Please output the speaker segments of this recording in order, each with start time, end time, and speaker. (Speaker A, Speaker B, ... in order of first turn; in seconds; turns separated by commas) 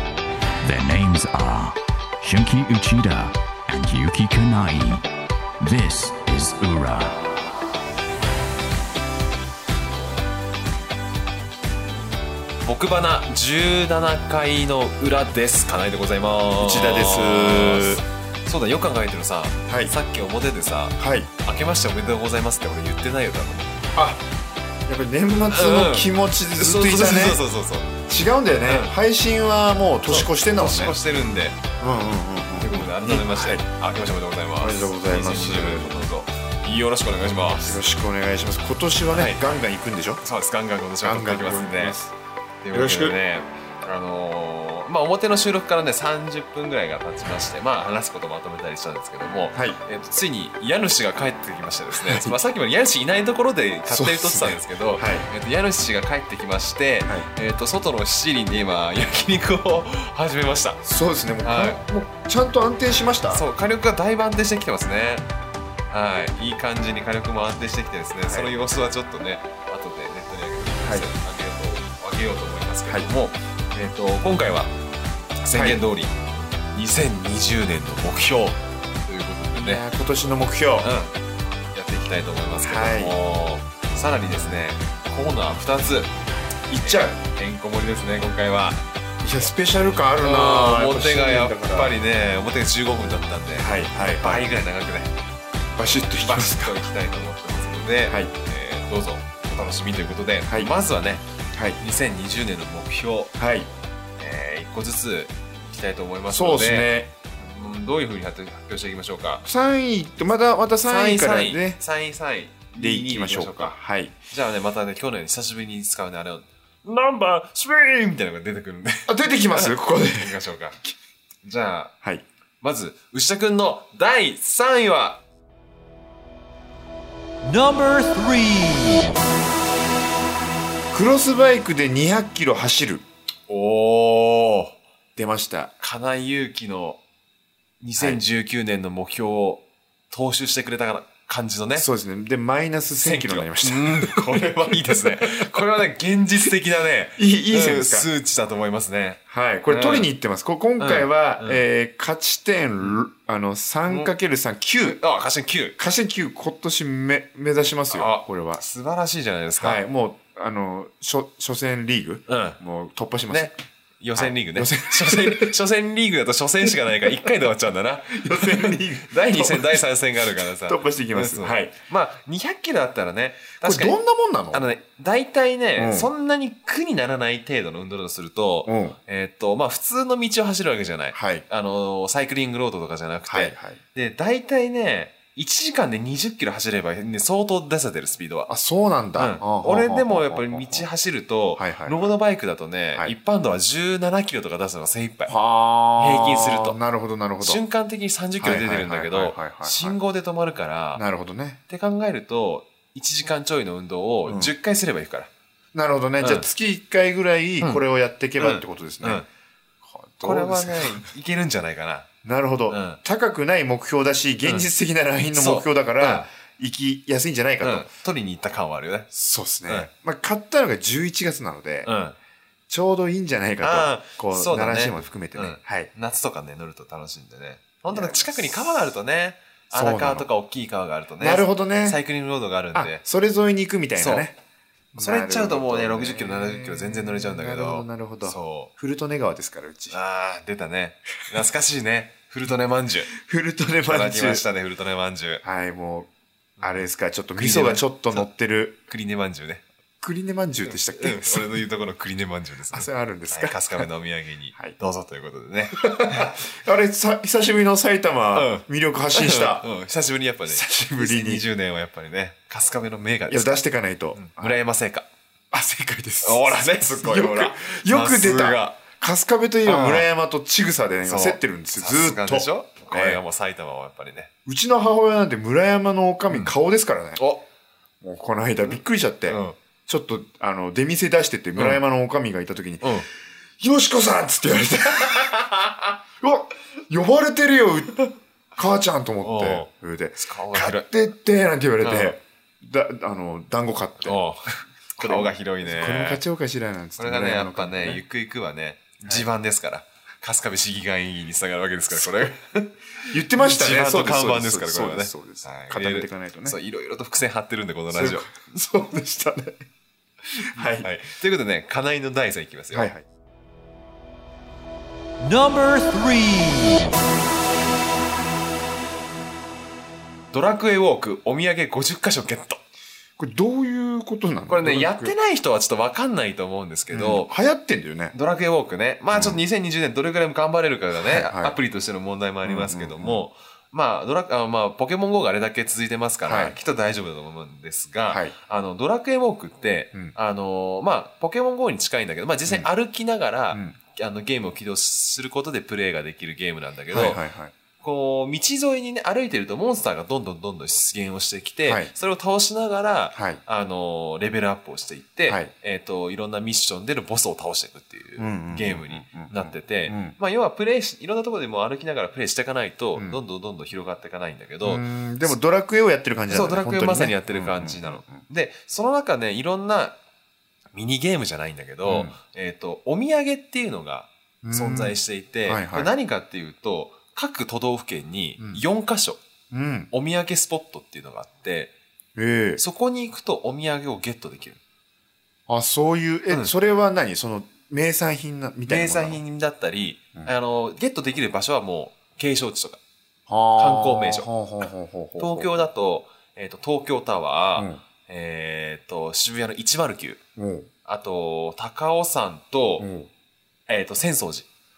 Speaker A: 0.6-5.0, Speaker A: 5.6-7.2, Speaker B: 12.6-23.8, Speaker C: 16.6-18.0, Speaker C: 19.7-19.9, Speaker C: 21.0-21.3, Speaker C: 23.9-24.2, Speaker C: 24.9-27.4, Speaker B: 25.5-27.9, Speaker C: 28.0-31.0, Speaker B: 28.6-28.9, Speaker B: 30.1-31.6, Speaker C: 31.8-33.6, Speaker B: 32.6-37.8, Speaker C: 34.6-36.1, Speaker C: 37.6-40.2, Speaker B: 39.1-39.4, Speaker B: 40.2-42.0, Speaker C: 41.0-42.1, Speaker B: 42.6-60.8, Speaker C: 42.7-43.2, Speaker C: 49.5-49.8, Speaker C: 51.9-52.4, Speaker C: 53.9-55.3, Speaker C: 60.8-63.4, Speaker B: 61.4-61.8, Speaker B: 63.3-65.2, Speaker B: 65.9-74.7, Speaker C: 68.2-68.6, Speaker C: 70.8-71.1, Speaker B: 75.4-76.2, Speaker C: 75.5-75.8, Speaker B: 76.7-79.8, Speaker C: 79.6-80.9, Speaker B: 80.8-81.1, Speaker B: 81.7-86.1, Speaker C: 82.6-83.2, Speaker C: 86.7-87.2, Speaker B: 86.8-88.8, Speaker C: 89.2-91.9, Speaker B: 90.2-95.1, Speaker C: 93.6-94.5, Speaker C: 95.8-96.8, Speaker B: 96.2-101.2, Speaker C: 101.5-101.8, Speaker B: 101.8-103.3, Speaker C: 103.4-103.7, Speaker B: 104.2-109.4, Speaker C: 106.3-107.1, Speaker C: 109.4-111.8, Speaker B: 110.8-113.7, Speaker C: 112.7-114.2, Speaker B: 114.3-120.8, Speaker C: 119.1-120.9, Speaker B: 121.4-121.9, Speaker B: 122.6-125.2, Speaker D: 127.4-129.2, Speaker C: 130.9-133.0, Speaker B: 133.5-134.8, Speaker C: 135.2-135.7, Speaker B: 135.8-137.0, Speaker B: 137.8-141.9, Speaker C: 141.7-145.5, Speaker B: 143.0-150.1, Speaker C: 147.2-148.1, Speaker C: 149.3-155.0, Speaker B: 150.8-151.6, Speaker B: 154.8-155.8, Speaker C: 155.8-158.6, Speaker B: 157.9-159.8, Speaker C: 159.6-163.5, Speaker B: 162.3-162.6, Speaker B: 163.3-173.9, Speaker C: 164.2-165.5, Speaker C: 166.6-167.3, Speaker C: 168.1-169.8, Speaker C: 170.6-171.8, Speaker C: 173.6-174.7, Speaker B: 174.5-188.5, Speaker C: 175.8-176.1, Speaker C: 178.7-179.0, Speaker C: 181.1-181.4, Speaker C: 183.3-183.8, Speaker C: 188.5-190.8, Speaker B: 189.1-195.3, Speaker C: 191.6-192.1, Speaker C: 195.3-197.6, Speaker B: 196.0-196.8, Speaker B: 197.4-201.0, Speaker C: 198.4-200.0, Speaker C: 200.9-201.6, Speaker B: 201.7-205.3, Speaker C: 204.3-204.5, Speaker C: 205.7-209.2, Speaker B: 206.2-206.5, Speaker B: 208.4-209.3, Speaker C: 209.8-211.1, Speaker B: 210.2-212.1, Speaker C: 212.2-217.9, Speaker B: 212.7-213.0, Speaker B: 215.3-216.3, Speaker B: 217.6-219.1, Speaker C: 219.1-221.9, Speaker B: 221.8-222.2, Speaker C: 222.7-225.9, Speaker B: 223.6-233.0, Speaker C: 227.9-228.7, Speaker C: 229.7-230.3, Speaker C: 231.2-232.0, Speaker C: 232.7-234.4, Speaker B: 234.0-234.3, Speaker C: 234.9-240.0, Speaker B: 235.0-238.7, Speaker B: 239.9-243.1, Speaker C: 243.1-244.4, Speaker B: 243.8-245.4, Speaker C: 245.4-246.1, Speaker B: 246.6-248.3, Speaker C: 246.6-248.8, Speaker B: 248.9-249.6, Speaker C: 250.0-251.6, Speaker B: 250.9-256.3, Speaker C: 252.7-253.8, Speaker C: 255.7-259.6, Speaker B: 258.3-263.6, Speaker C: 260.5-261.4, Speaker C: 263.3-264.6, Speaker B: 264.1-265.1, Speaker C: 265.5-273.2, Speaker B: 266.2-268.8, Speaker B: 269.6-270.1, Speaker B: 271.0-274.3, Speaker C: 274.4-277.2, Speaker B: 277.2-277.4, Speaker C: 278.0-282.9, Speaker B: 279.3-279.6, Speaker B: 281.6-281.8, Speaker B: 282.8-283.1, Speaker C: 283.6-294.2, Speaker B: 289.2-290.9, Speaker B: 291.8-292.2, Speaker B: 294.0-296.2, Speaker C: 295.0-298.0, Speaker B: 297.0-302.8, Speaker C: 301.9-302.2, Speaker C: 303.1-306.6, Speaker B: 303.3-308.3, Speaker C: 307.9-309.6, Speaker C: 310.5-310.9, Speaker B: 310.6-312.9, Speaker C: 312.7-313.1, Speaker D: 315.2-317.0, Speaker B: 320.3-322.6, Speaker C: 323.2-325.1, Speaker B: 324.5-327.3, Speaker C: 326.9-328.1, Speaker B: 328.1-347.2, Speaker C: 329.1-329.4, Speaker C: 331.0-331.6, Speaker C: 332.4-333.2, Speaker C: 336.2-336.6, Speaker C: 338.1-338.3, Speaker C: 343.5-343.8, Speaker C: 346.9-347.5, Speaker B: 347.8-365.3, Speaker C: 351.6-351.9, Speaker C: 353.1-353.4, Speaker C: 358.2-360.1, Speaker C: 364.6-368.2, Speaker B: 366.3-370.0, Speaker B: 370.7-379.2, Speaker C: 371.9-372.1, Speaker C: 374.4-375.9, Speaker C: 379.5-379.9, Speaker B: 379.9-381.7, Speaker C: 382.1-382.6, Speaker B: 382.6-384.6, Speaker C: 385.5-389.2, Speaker B: 388.6-392.8, Speaker C: 393.3-395.7, Speaker B: 393.6-394.3, Speaker B: 395.2-400.2, Speaker C: 400.4-400.7, Speaker B: 400.8-402.9, Speaker C: 402.8-403.1, Speaker B: 403.7-404.5